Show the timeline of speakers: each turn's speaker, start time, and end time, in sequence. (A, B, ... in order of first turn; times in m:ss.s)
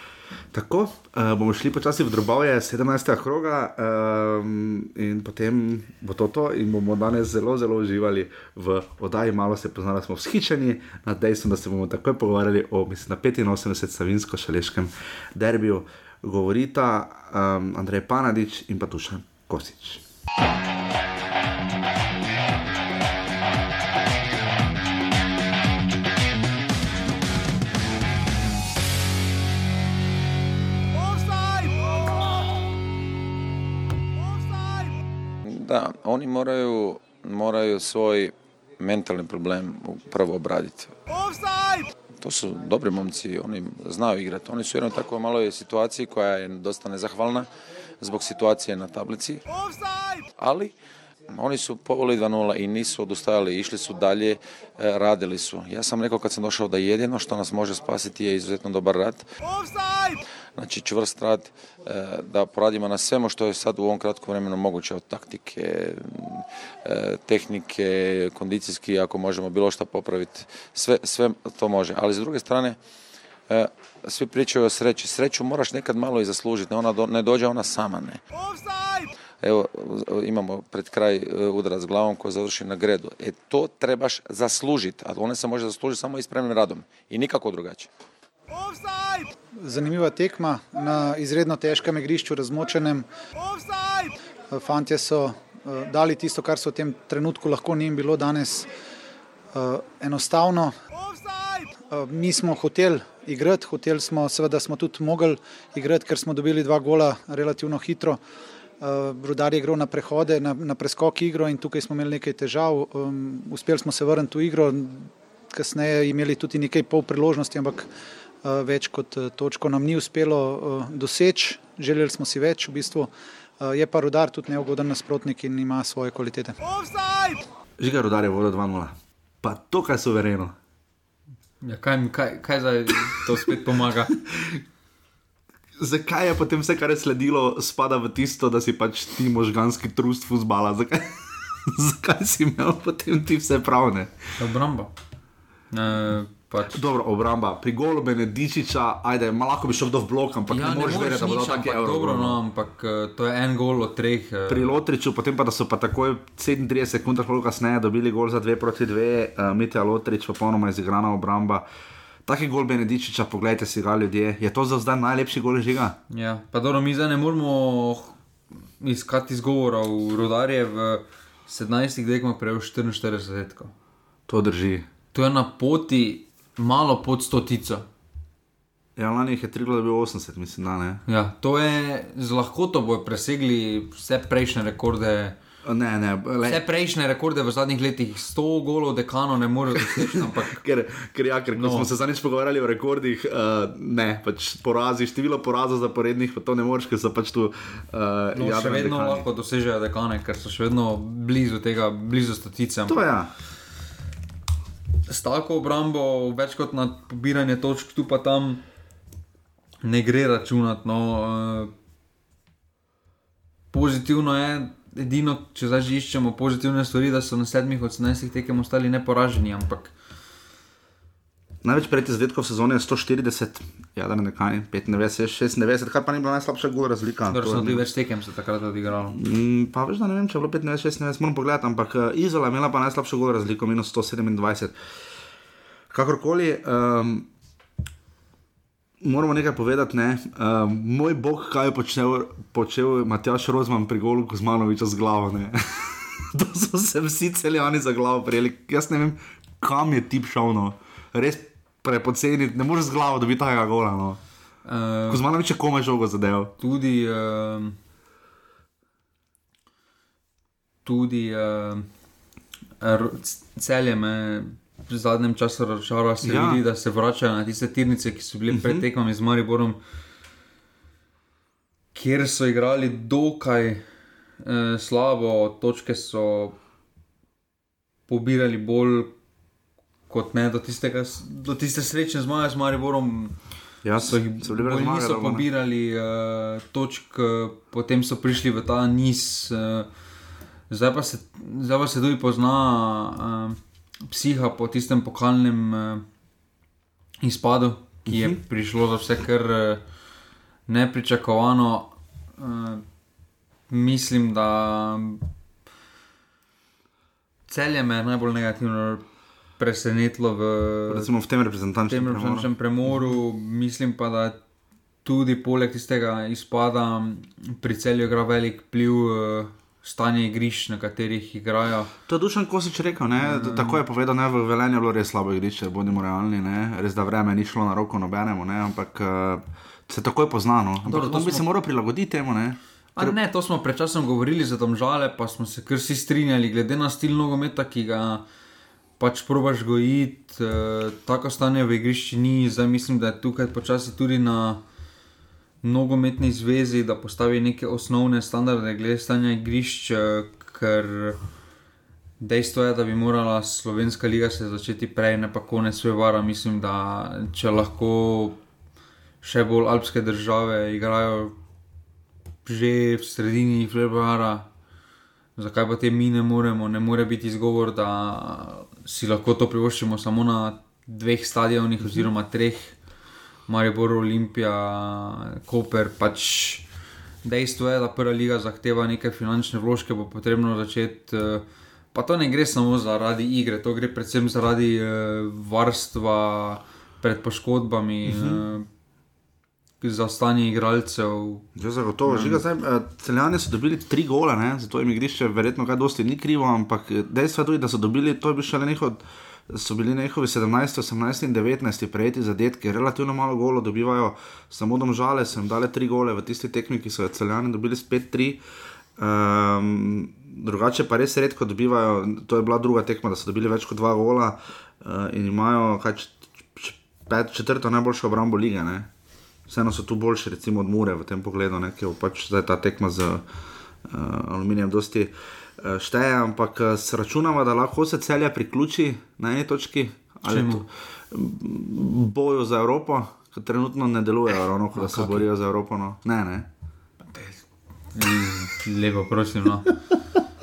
0:00.5-0:20.0 A
0:35.4-0:40.9 B
0:42.2-0:47.5 B
0:48.0-0:49.4 B
0:50.4-0:50.7 B
0:51.3-0:59.3 B
1:00.6-1:12.8 B
1:13.5-1:18.2 B
1:19.4-1:27.9 B
1:29.5-1:33.0 C
1:34.5-1:38.7 C
1:39.5-1:40.7 C
1:41.9-1:48.2 C
1:48.8-1:57.9 C
1:58.4-2:06.7 C
2:07.8-2:10.5 A
2:11.6-2:14.1 D
2:14.1-2:14.6 A
2:15.8-2:24.1 A
2:24.4-2:24.9 D
2:25.7-2:26.8 D
2:26.7-2:32.4 A
2:30.5-2:34.8 D
2:34.5-2:41.6 A
2:42.2-2:46.0 A
2:46.1-2:48.2 D
2:48.8-2:53.7 D
2:54.3-2:54.9 A
2:55.1-2:57.8 D
2:59.0-3:01.0 A
3:01.1-3:05.4 D
3:05.6-3:06.6 A
3:06.4-3:10.6 D
3:09.7-3:19.2 A
3:11.5-3:11.9 D
3:18.3-3:23.0 D
3:22.9-3:23.3 A
3:25.1-3:28.6 D
3:29.8-3:31.7 D
3:33.7-3:39.9 D
3:41.6-3:47.9 A
3:47.3-3:49.2 D
3:49.1-3:54.8 A
3:55.9-3:57.3 A
3:59.0-4:14.2 A
4:14.6-4:15.2 D
4:15.1-4:16.5 A
4:16.6-4:17.8 D
4:20.8-4:21.9 D
4:22.8-4:29.8 D
4:26.2-4:26.6 A
4:28.5-4:28.8 A
4:31.9-4:33.8 D
4:34.4-4:36.6 D
4:38.1-4:39.1 D
4:40.1-4:43.3 D
4:43.8-4:45.4 A
4:44.0-4:49.9 D
4:50.7-4:53.6 D
4:54.1-4:56.0 D
4:57.2-4:59.8 D
4:58.0-4:58.4 A
5:00.7-5:02.8 D
5:03.7-5:05.2 D
5:07.5-5:09.0 D
5:09.6-5:11.1 D
5:10.9-5:13.2 A
5:11.9-5:14.4 D
5:15.0-5:21.9 D
5:22.1-5:33.2 A
5:23.2-5:23.8 D
5:30.8-5:31.4 D
5:32.9-5:38.2 D
5:39.0-5:44.6 D
5:45.6-5:51.2 D
5:52.2-5:58.4 D
5:59.2-6:01.3 D
6:02.4-6:04.4 D
6:05.4-6:12.8 D
6:13.5-6:16.6 D
6:17.2-6:28.6 D
6:28.0-6:28.4 A
6:29.8-6:31.4 D
6:31.6-6:48.4 A
6:32.0-6:32.4 D
6:49.0-6:58.9 A
6:59.5-7:03.2 A
7:03.9-7:16.5 A
7:10.3-7:10.6 D
7:14.7-7:15.3 D
7:17.9-7:19.7 D